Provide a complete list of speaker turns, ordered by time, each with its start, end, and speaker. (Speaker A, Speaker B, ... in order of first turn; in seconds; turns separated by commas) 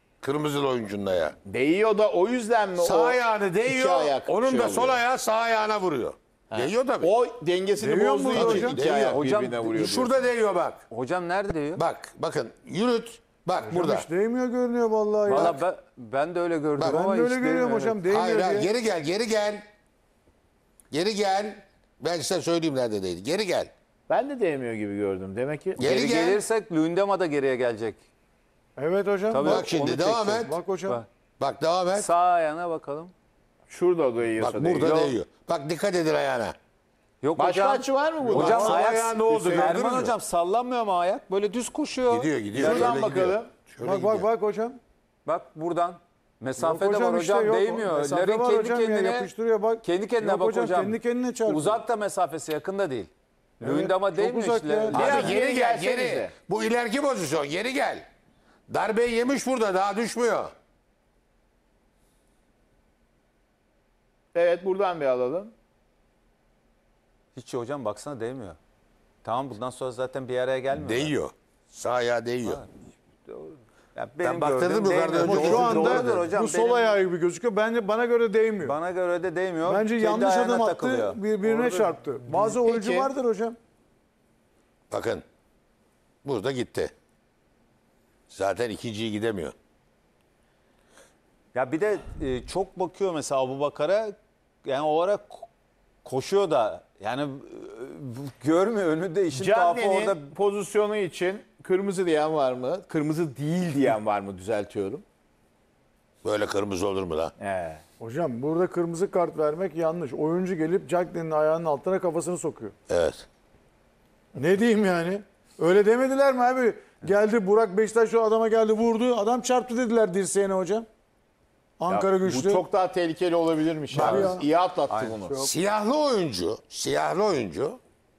Speaker A: 0.2-1.4, Speaker B: 1.5-5.0, Speaker A: 2.8-7.1, Speaker B: 6.5-10.3, Speaker C: 7.8-8.8, Speaker A: 8.3-9.2, Speaker D: 9.0-9.8, Speaker A: 9.7-10.8, Speaker D: 10.9-11.8, Speaker A: 11.8-14.1, Speaker C: 13.7-15.6, Speaker D: 15.2-18.0, Speaker A: 15.3-15.6, Speaker A: 16.8-17.0, Speaker C: 16.8-18.7, Speaker A: 18.1-19.7, Speaker A: 20.9-23.7, Speaker B: 24.1-25.9, Speaker A: 25.8-26.4, Speaker D: 25.8-28.0, Speaker C: 28.8-29.7, Speaker D: 29.3-31.1, Speaker A: 29.4-30.5, Speaker C: 30.4-31.0, Speaker A: 31.4-32.1, Speaker D: 31.9-33.1, Speaker B: 33.7-35.1, Speaker A: 34.4-36.5, Speaker D: 37.2-43.0, Speaker B: 37.4-39.8, Speaker A: 38.3-40.1, Speaker C: 38.3-38.9, Speaker A: 42.1-44.3, Speaker B: 42.5-43.5, Speaker C: 43.8-44.8, Speaker D: 45.3-55.4, Speaker C: 46.6-51.8, Speaker C: 53.6-55.2, Speaker B: 54.9-56.3, Speaker A: 54.9-58.0, Speaker A: 58.7-60.5, Speaker B: 64.3-65.5, Speaker D: 67.3-68.6, Speaker D: 69.2-71.1, Speaker A: 70.7-72.6, Speaker D: 72.4-72.7, Speaker D: 73.3-77.0, Speaker A: 74.2-76.3, Speaker C: 75.2-78.8, Speaker D: 78.6-81.9, Speaker C: 79.6-83.6, Speaker B: 82.3-83.1, Speaker A: 84.9-85.2, Speaker A: 86.2-86.9, Speaker A: 88.3-89.5, Speaker D: 91.5-94.1, Speaker D: 94.7-95.5, Speaker D: 96.0-100.3, Speaker B: 99.3-105.0, Speaker A: 106.2-107.3, Speaker B: 107.4-107.8, Speaker C: 108.0-112.7, Speaker A: 112.9-113.3, Speaker C: 114.3-120.9, Speaker C: 121.8-122.7, Speaker B: 121.9-125.5, Speaker A: 123.9-124.4, Speaker C: 123.9-124.5, Speaker D: 124.9-125.5, Speaker A: 125.3-127.8